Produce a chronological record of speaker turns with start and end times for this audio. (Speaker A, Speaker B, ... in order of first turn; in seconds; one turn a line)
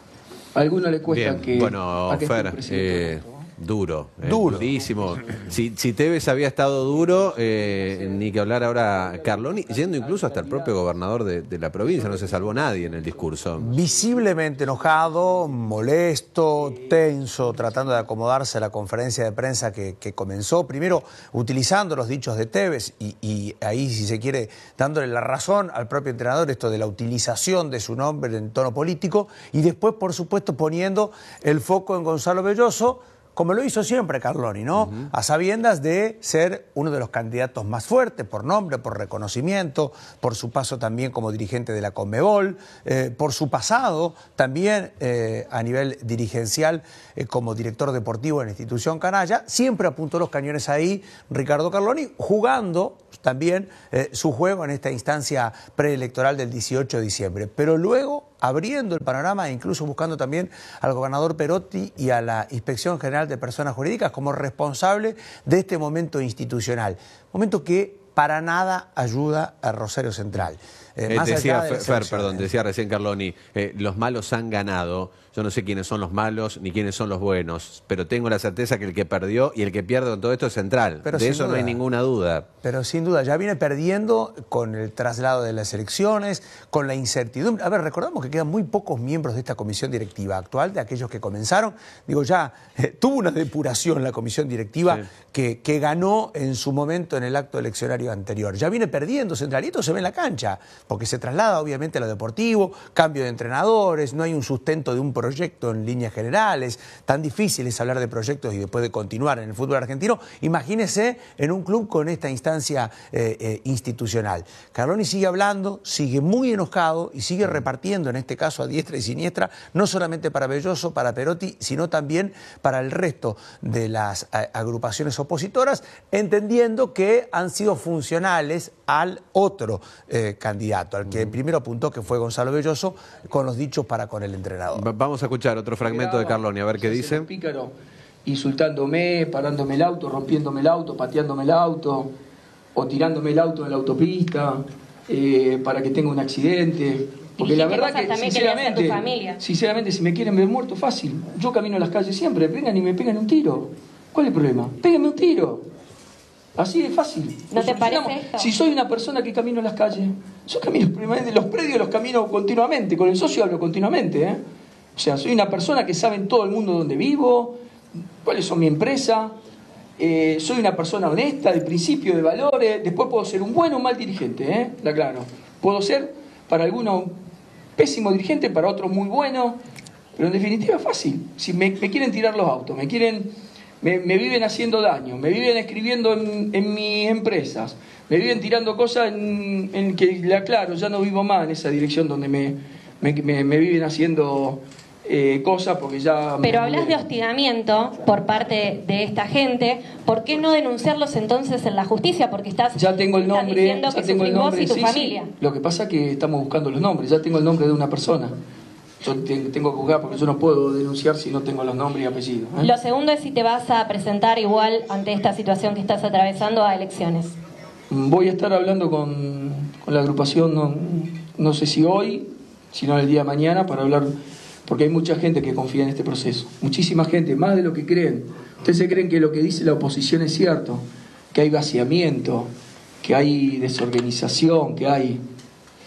Speaker A: 0.5-3.5
Speaker B: 1.1-13.7
Speaker C: 4.2-4.7
Speaker A: 4.6-5.4
Speaker A: 7.0-8.3
Speaker A: 8.9-10.8
Speaker A: 11.8-15.3
Speaker C: 13.6-72.5
Speaker A: 16.6-16.9
Speaker B: 71.1-82.5
Speaker C: 81.0-81.8
Speaker C: 82.6-134.9
Speaker B: 134.8-137.2
Speaker A: 135.8-137.7
Speaker A: 138.2-142.1
Speaker A: 142.7-155.6
Speaker D: 147.4-149.4
Speaker A: 156.6-164.4
Speaker D: 157.5-158.5
Speaker A: 164.9-167.6
Speaker A: 168.2-169.3
Speaker A: 170.0-177.2
Speaker A: 177.8-179.6
Speaker A: 180.2-197.0
Speaker D: 196.4-205.3
Speaker A: 202.7-208.3
Speaker A: 209.0-212.7
Speaker D: 212.6-217.3
Speaker A: 217.9-224.1
Speaker A: 224.7-232.5
Speaker A: 233.0-235.2